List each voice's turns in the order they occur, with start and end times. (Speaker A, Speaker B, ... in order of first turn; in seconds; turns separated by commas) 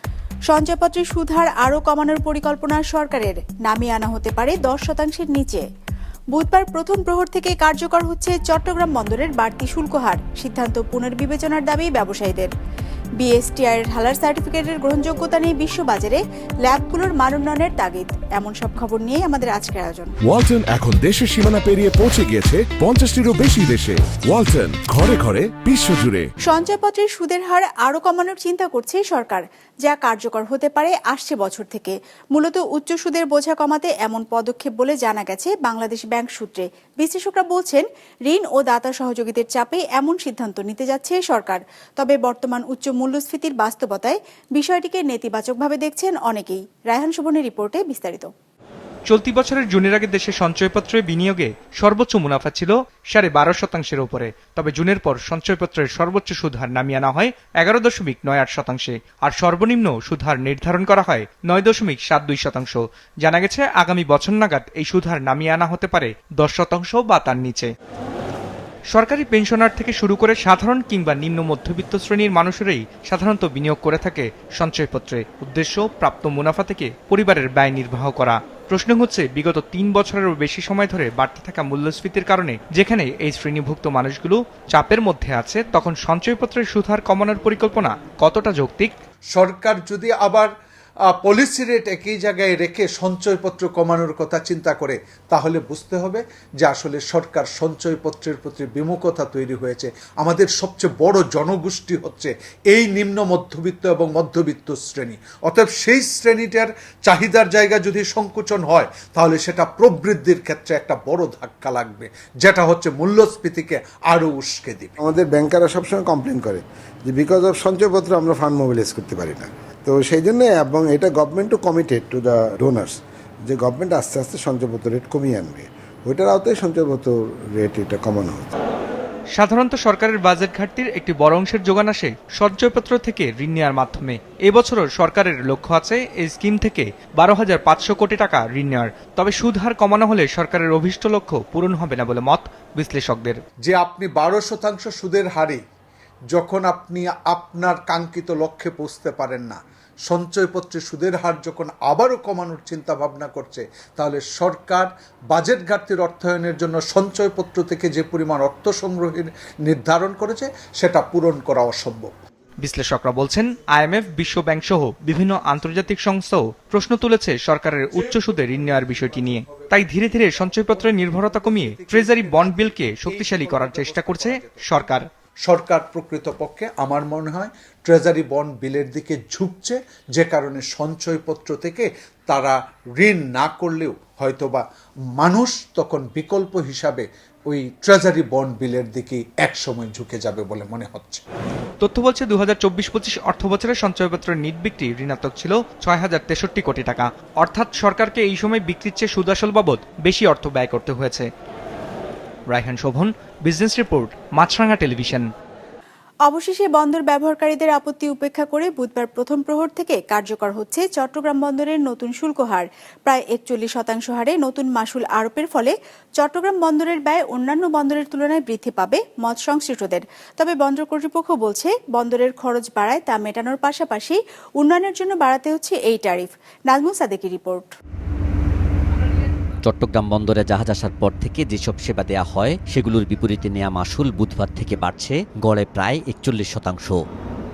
Speaker A: 0.5-5.6, Speaker A: 6.3-12.5, Speaker A: 13.2-20.1, Speaker B: 20.2-26.2, Speaker A: 26.5-48.3, Speaker C: 49.1-67.7, Speaker C: 68.9-88.9, Speaker D: 89.3-90.5, Speaker D: 91.1-115.0, Speaker E: 115.0-128.5, Speaker C: 129.3-143.4, Speaker D: 143.6-145.6, Speaker D: 146.3-162.1, Speaker C: 162.6-175.1, Speaker D: 171.8-174.6, Speaker D: 175.4-184.6, Speaker D: 185.2-191.2, Speaker C: 191.8-201.3, Speaker C: 202.5-205.3, Speaker A: 206.3-227.7, Speaker F: 229.6-237.0